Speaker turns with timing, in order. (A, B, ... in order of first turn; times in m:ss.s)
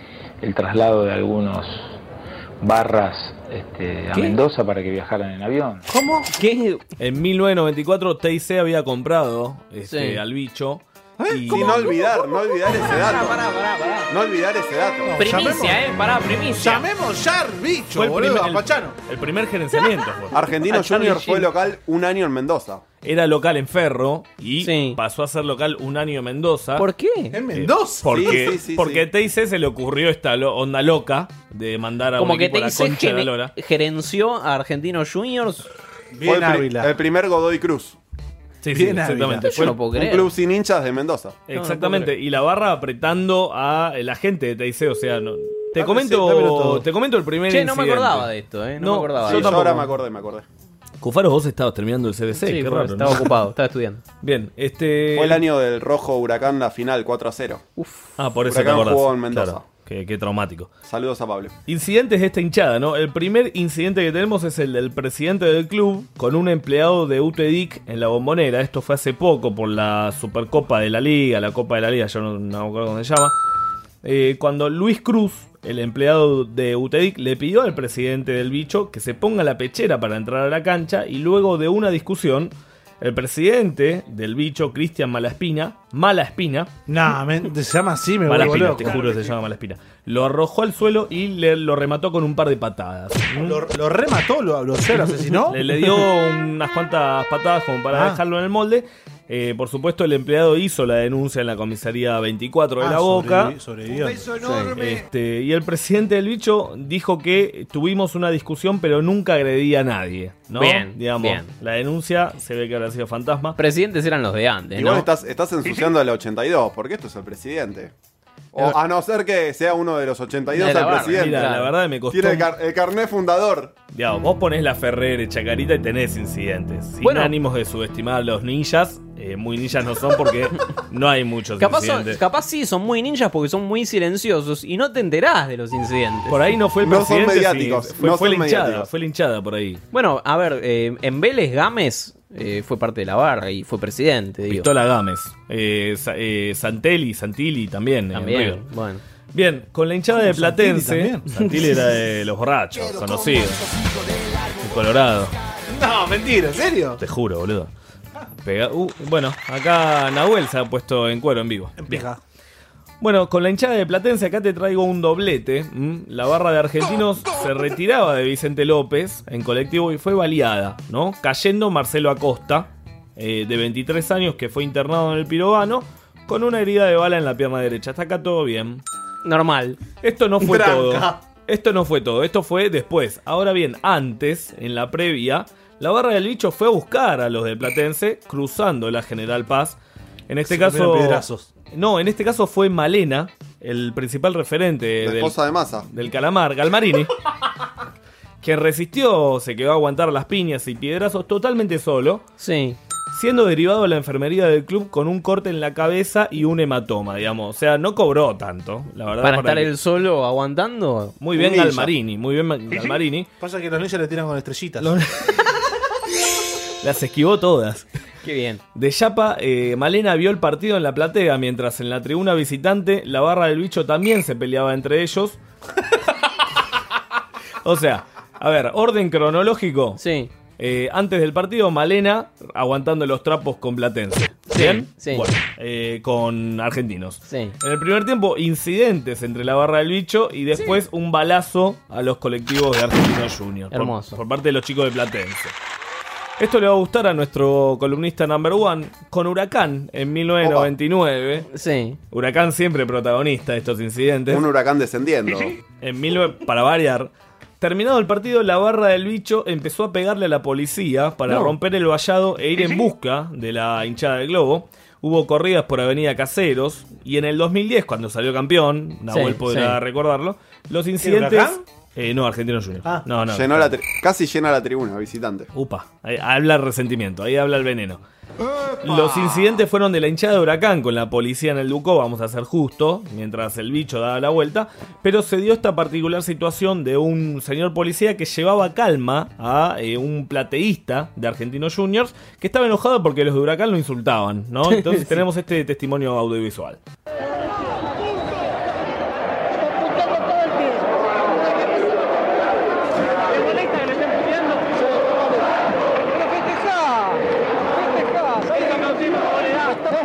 0:00.4-0:02.0 A
0:02.6-0:05.8 A
0:04.1-0:04.4 B
0:06.2-0:06.8 B
0:07.0-0:11.9 C
0:09.9-0:10.2 B
0:11.2-0:11.7 D
0:11.5-0:13.4 E
0:12.8-0:14.1 B
0:14.1-0:15.2 E
0:15.0-0:15.8 D
0:15.2-0:16.9 B
0:16.6-0:19.0 D
0:18.0-0:20.4 C
0:20.3-0:22.8 E
0:20.7-0:21.5 B
0:23.0-0:26.9 C
0:24.6-0:25.0 B
0:26.8-0:27.4 B
0:27.3-0:28.1 D
0:27.5-0:33.5 C
0:28.1-0:29.0 E
0:32.2-0:35.7 B
0:36.1-0:36.9 D
0:36.2-0:38.0 E
0:38.6-0:39.8 C
0:38.7-0:39.8 D
0:39.4-0:40.3 B
0:39.9-0:41.4 E
0:41.5-0:49.9 C
0:41.5-0:42.1 B
0:45.8-0:46.9 D
0:47.5-0:49.7 B
0:49.2-0:50.5 E
0:51.0-0:53.3 C
0:52.4-0:54.0 B
0:54.2-0:55.4 C
0:55.2-0:57.6 E
0:57.8-0:58.2 B
0:58.2-1:00.7 C
0:58.5-0:59.6 E
1:00.9-1:01.5 E
1:01.7-1:13.3 C
1:14.0-1:26.7 C
1:26.9-1:29.4 D
1:28.3-1:33.6 C
1:33.4-1:35.6 D
1:35.5-1:43.6 C
1:37.9-1:38.2 D
1:42.8-1:44.8 D
1:44.4-1:44.8 B
1:44.8-1:53.6 C
1:50.6-1:51.5 B
1:53.6-1:55.1 B
1:54.8-1:57.9 E
1:58.5-2:01.5 E
2:00.5-2:01.7 B
2:00.8-2:02.5 C
2:02.1-2:03.8 E
2:03.9-2:12.2 C
2:07.0-2:07.3 B
2:11.6-2:16.5 B
2:16.3-2:19.8 C
2:16.8-2:18.9 E
2:19.9-2:24.7 B
2:24.5-2:28.6 C
2:28.1-2:29.0 B
2:29.3-2:33.6 C
2:30.2-2:31.3 D
2:34.6-2:35.4 C
2:35.7-2:37.0 D
2:37.0-2:37.7 C
2:38.4-2:42.1 C
2:41.8-2:42.2 D
2:43.0-2:58.8 C
2:59.2-2:59.8 B
3:00.0-3:09.8 C
3:00.4-3:01.2 D
3:10.3-3:17.1 C
3:10.5-3:11.5 D
3:15.0-3:15.9 E
3:18.4-3:22.2 C
3:22.4-3:22.8 B
3:23.1-3:29.7 C
3:29.2-3:31.2 B
3:31.2-3:33.3 C
3:32.7-3:34.9 D
3:34.8-3:35.4 C
3:36.8-3:37.8 C
3:38.2-3:38.6 B
3:38.8-3:45.4 C
3:47.6-3:50.0 C
3:50.0-3:50.3 B
3:50.6-4:05.5 C
3:54.5-3:55.3 B
3:57.3-3:57.6 B
4:03.7-4:04.2 B
4:06.4-4:11.5 C
4:10.4-4:10.7 E
4:11.5-4:12.0 B
4:12.1-4:14.5 C
4:14.3-4:15.6 E
4:15.8-4:33.8 C
4:21.3-4:21.6 B
4:29.1-4:29.8 B
4:31.0-4:31.6 D
4:33.3-4:35.5 E
4:35.5-4:38.0 C
4:38.8-4:56.8 C
4:54.7-4:55.2 B